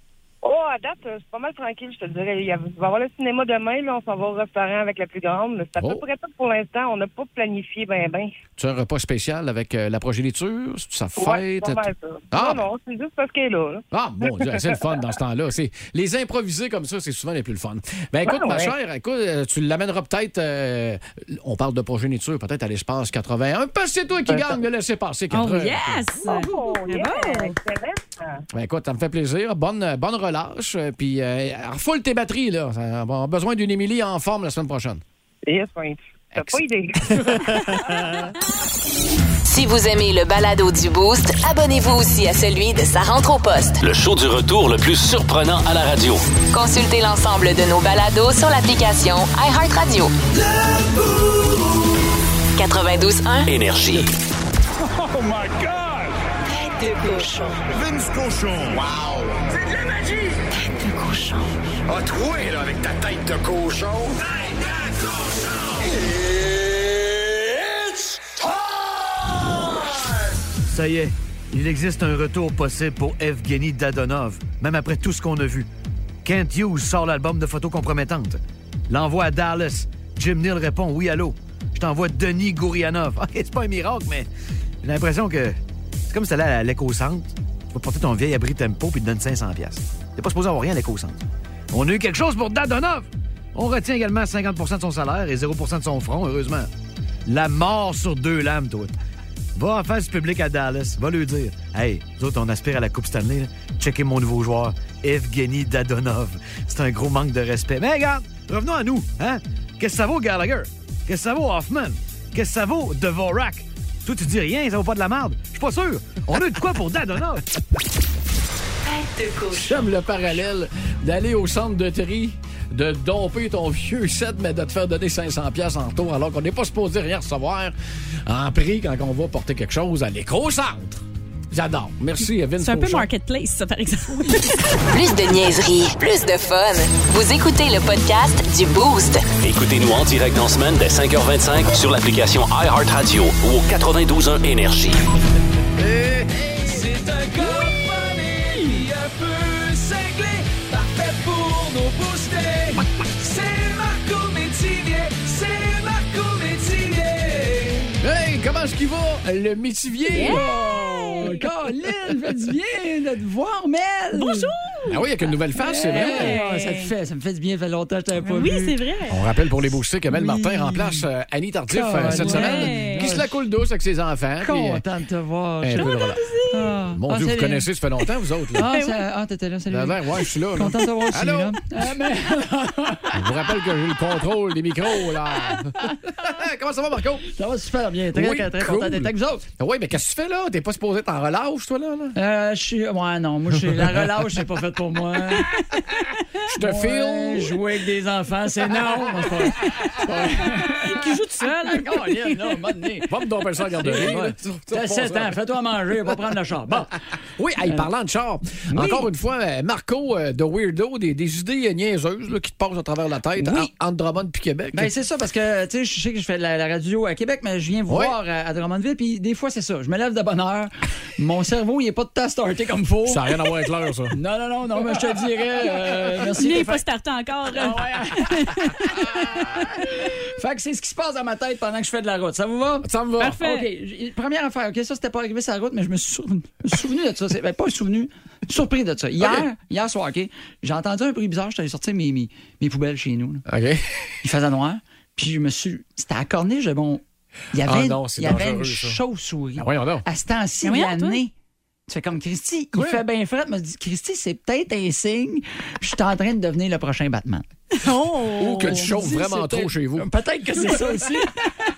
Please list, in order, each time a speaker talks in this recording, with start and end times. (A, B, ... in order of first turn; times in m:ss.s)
0:00.4-0:08.3 A
0:05.8-0:06.0 B
0:08.6-0:12.6 B
0:11.2-0:13.8 A
0:13.9-0:26.0 B
0:18.2-0:18.7 A
0:24.3-0:24.6 A
0:25.3-0:27.6 C
0:26.2-0:28.4 A
0:28.5-0:35.0 B
0:35.4-0:37.2 A
0:36.3-0:37.8 B
0:39.4-0:43.8 D
0:43.8-0:46.2 E
0:46.5-0:50.1 D
0:50.5-0:51.6 F
0:52.5-0:53.5 D
0:53.4-0:54.1 E
0:55.1-0:56.0 G
0:56.9-0:57.4 D
0:57.7-0:59.5 G
1:01.0-1:01.4 D
1:01.9-1:06.2 G
1:10.7-1:15.6 H
1:16.2-1:18.4 H
1:18.9-1:24.2 H
1:24.8-1:25.5 H
1:26.1-1:31.2 H
1:31.7-1:36.7 H
1:37.3-1:38.9 H
1:39.6-1:57.4 H
1:59.5-2:07.7 B
2:08.2-2:13.1 B
2:12.6-2:14.8 C
2:14.9-2:19.3 D
2:19.4-2:25.0 E
2:25.8-2:26.8 B
2:26.6-2:37.9 F
2:38.0-2:41.5 B
2:40.1-2:41.5 C
2:40.2-2:44.5 F
2:44.1-2:46.9 C
2:44.9-2:46.4 B
2:45.6-2:48.8 F
2:48.2-2:49.2 C
2:49.1-2:54.8 B
2:50.1-2:51.0 F
2:51.7-2:53.4 F
2:52.0-2:53.2 C
2:54.4-2:55.9 F
2:55.6-2:56.3 B
2:55.7-2:56.8 C
2:56.5-2:57.7 F
2:56.8-2:58.7 B
2:58.5-3:03.5 F
2:58.6-2:59.0 C
2:59.7-3:01.6 B
3:03.1-3:07.3 B
3:07.3-3:09.4 F
3:08.1-3:12.2 B
3:12.1-3:15.6 F
3:16.5-3:17.6 B
3:16.6-3:21.0 F
3:19.6-3:22.9 C
3:20.0-3:20.7 B
3:21.6-3:23.1 F
3:23.1-3:25.4 B
3:23.7-3:26.9 F
3:27.4-3:34.9 B
3:28.7-3:29.1 F
3:33.4-3:33.7 F
3:34.7-3:43.5 F
3:37.9-3:38.2 B
3:43.0-3:44.2 B
3:44.1-3:46.8 F
3:46.2-3:50.0 C
3:47.5-3:48.3 F
3:50.0-4:03.4 F
3:52.8-3:53.4 B
3:53.2-3:53.7 C
3:59.2-3:59.5 B
4:03.4-4:04.1 B
4:04.2-4:11.3 F
4:07.6-4:09.0 B
4:09.6-4:10.1 B
4:10.6-4:11.2 C
4:11.9-4:17.4 F
4:12.7-4:13.0 B
4:17.8-4:18.9 C
4:18.3-4:21.2 B
4:18.9-4:21.5 F